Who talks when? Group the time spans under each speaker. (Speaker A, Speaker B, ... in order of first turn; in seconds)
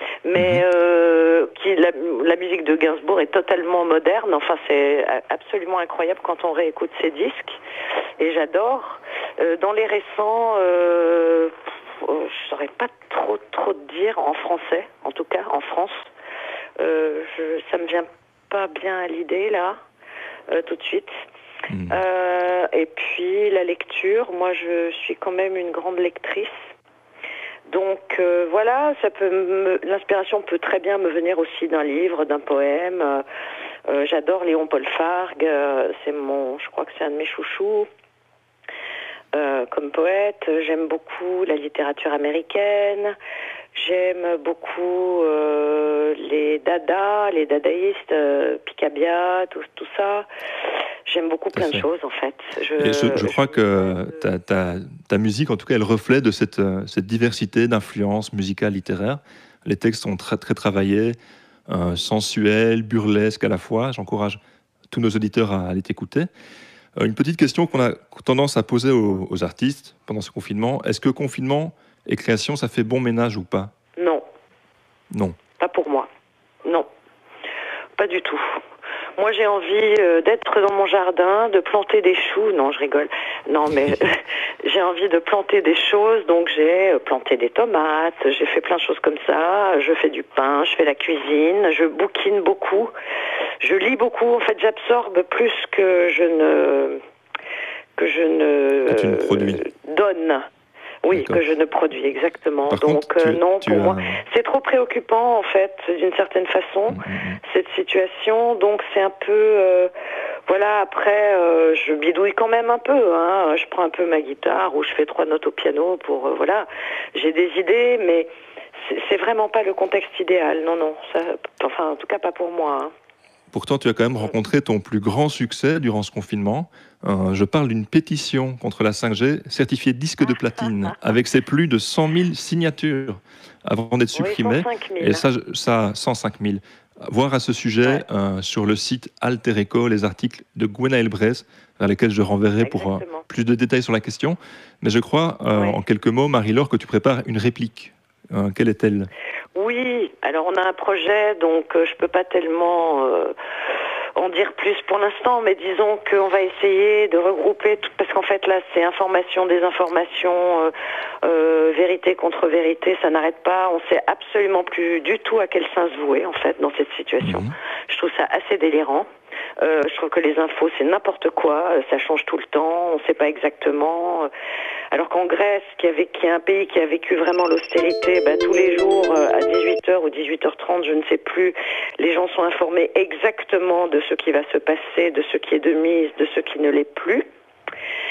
Speaker A: 0.2-7.6, 8.2-16.1, 16.8-19.8, 20.5-21.1, 21.9-26.5, 27.7-33.2, 33.9-37.9, 39.3-43.1, 43.7-50.3, 51.0-54.2, 74.0-74.2, 75.6-76.1, 78.0-78.6, 79.2-92.9, 93.6-97.0, 98.0-100.5, 101.0-109.9, 110.5-118.3, 118.9-122.9, 130.2-131.1, 134.1-135.2, 142.6-143.2, 145.5-145.8, 149.6-153.3, 154.2-160.7, 161.2-169.1, 169.6-174.3, 174.9-187.2
Speaker B: 0.3-0.6, 21.7-22.0, 51.5-51.9, 52.8-64.4, 64.9-66.3, 67.0-73.7, 75.1-75.4, 98.9-99.6, 101.1-101.4, 102.7-104.2, 106.9-107.4, 123.5-149.1, 167.2-167.5